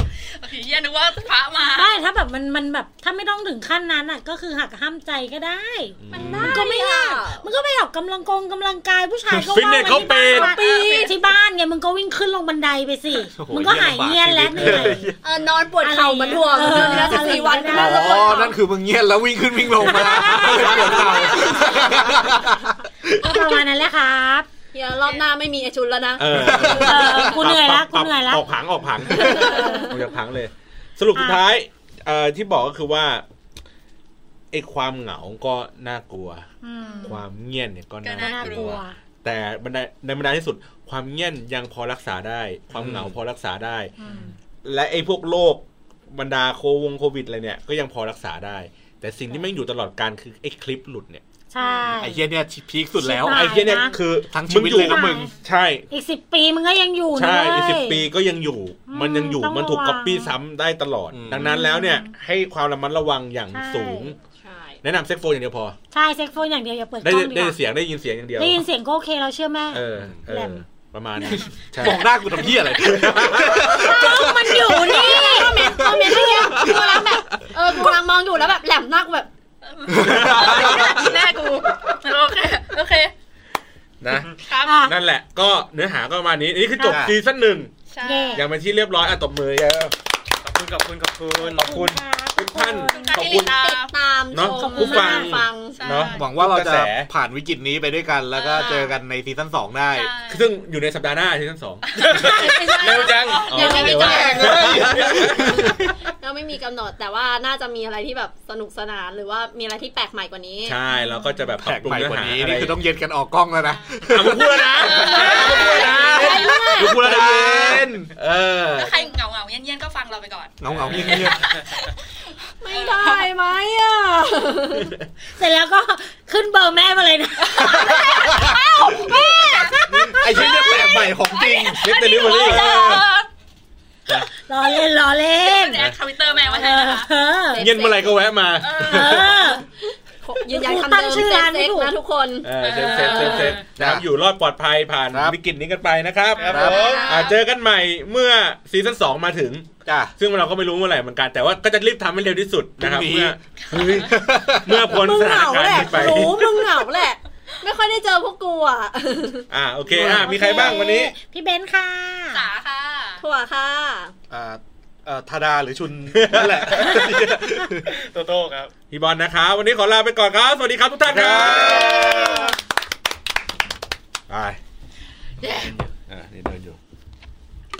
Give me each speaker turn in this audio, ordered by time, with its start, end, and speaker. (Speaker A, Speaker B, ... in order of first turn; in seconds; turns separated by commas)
Speaker A: 0.4-2.0, Speaker B: 1.8-15.1, Speaker C: 6.0-6.6, Speaker D: 6.1-7.5, Speaker C: 9.5-10.5, Speaker D: 10.2-11.1, Speaker A: 10.4-11.1, Speaker E: 13.3-15.2, Speaker D: 15.2-18.6, Speaker B: 15.8-18.3, Speaker E: 16.6-23.3, Speaker B: 19.8-21.7, Speaker D: 20.2-22.2, Speaker C: 20.3-21.1, Speaker B: 23.2-24.5, Speaker D: 24.7-27.2, Speaker C: 26.2-33.2, Speaker E: 26.3-27.3, Speaker B: 26.8-28.4, Speaker E: 29.1-29.6, Speaker B: 29.2-29.9, Speaker D: 29.2-29.9, Speaker B: 31.1-31.4, Speaker C: 34.5-36.5, Speaker B: 36.6-37.2, Speaker A: 36.8-37.1, Speaker C: 37.0-43.9, Speaker A: 38.0-38.8, Speaker B: 38.2-39.0, Speaker E: 42.7-43.1, Speaker B: 44.0-44.3, Speaker C: 44.6-51.2, Speaker B: 51.5-52.2, Speaker E: 52.0-55.3, Speaker B: 53.0-54.0, Speaker C: 53.2-55.9, Speaker B: 54.7-55.3, Speaker B: 55.9-58.1, Speaker C: 57.1-64.1, Speaker B: 58.9-60.4, Speaker E: 61.1-61.5, Speaker B: 61.4-62.1, Speaker B: 63.5-64.1, Speaker D: 64.4-64.8, Speaker C: 64.8-65.8, Speaker B: 65.9-67.6, Speaker C: 67.0-68.6, Speaker B: 68.4-70.6, Speaker C: 69.7-72.2, Speaker E: 71.8-77.0, Speaker C: 72.7-73.8, Speaker D: 73.6-79.3, Speaker B: 73.6-75.8, Speaker A: 76.5-77.0, Speaker A: 79.7-83.1, Speaker E: 79.9-81.0, Speaker C: 80.0-81.0, Speaker D: 80.2-81.9, Speaker C: 84.0-84.3, Speaker A: 84.5-84.9, Speaker B: 84.6-84.9, Speaker C: 84.8-87.7, Speaker B: 86.8-87.0, Speaker E: 86.9-87.1, Speaker A: 87.9-88.4, Speaker B: 88.0-88.4, Speaker C: 88.3-89.9, Speaker F: 90.4-91.7, Speaker B: 91.4-93.3, Speaker C: 91.6-93.5, Speaker A: 92.9-93.9, Speaker D: 93.3-95.8, Speaker C: 94.3-97.1, Speaker B: 94.5-95.3, Speaker A: 95.7-96.2, Speaker E: 96.0-100.1, Speaker A: 98.3-98.9, Speaker A: 99.9-100.5, Speaker C: 100.3-102.4, Speaker A: 101.9-104.7, Speaker F: 102.0-103.5, Speaker B: 102.1-103.0, Speaker D: 102.4-104.8, Speaker C: 103.5-105.9, Speaker E: 103.7-105.8, Speaker D: 106.2-110.8, Speaker C: 110.7-112.8, Speaker B: 111.0-111.4, Speaker E: 111.6-118.1, Speaker C: 114.1-118.9, Speaker A: 114.8-116.3, Speaker D: 115.1-117.0, Speaker B: 115.2-115.8, Speaker A: 118.8-121.9, Speaker E: 120.6-121.5, Speaker C: 120.7-121.3, Speaker D: 122.6-124.9, Speaker A: 122.6-123.3, Speaker B: 125.4-128.1, Speaker A: 127.5-133.3, Speaker E: 127.6-128.6, Speaker D: 127.6-129.8, Speaker B: 129.4-130.4, Speaker E: 129.9-131.8, Speaker C: 131.7-133.0, Speaker E: 132.4-133.0, Speaker A: 134.1-134.8, Speaker B: 134.4-135.8, Speaker A: 135.3-137.1, Speaker B: 136.4-137.6, Speaker D: 137.5-138.3, Speaker C: 137.6-139.2, Speaker A: 138.6-139.5, Speaker B: 138.7-139.6, Speaker D: 140.2-143.5, Speaker B: 140.5-141.9, Speaker C: 142.4-156.6, Speaker A: 142.6-143.6, Speaker E: 143.6-144.0, Speaker E: 145.1-145.4, Speaker A: 146.3-147.4, Speaker F: 146.4-147.3, Speaker E: 146.5-147.1, Speaker E: 149.8-150.1, Speaker E: 152.8-154.9, Speaker A: 153.6-154.0, Speaker D: 154.9-159.4, Speaker C: 159.5-161.1, Speaker E: 159.9-160.7, Speaker B: 160.0-162.4, Speaker A: 162.3-163.2, Speaker D: 163.2-164.1, Speaker E: 164.3-167.9, Speaker C: 166.1-167.0, Speaker F: 167.9-168.7, Speaker C: 168.9-172.2, Speaker E: 171.1-172.3, Speaker F: 171.9-172.4, Speaker C: 174.3-174.6, Speaker F: 175.4-175.9, Speaker C: 176.1-176.8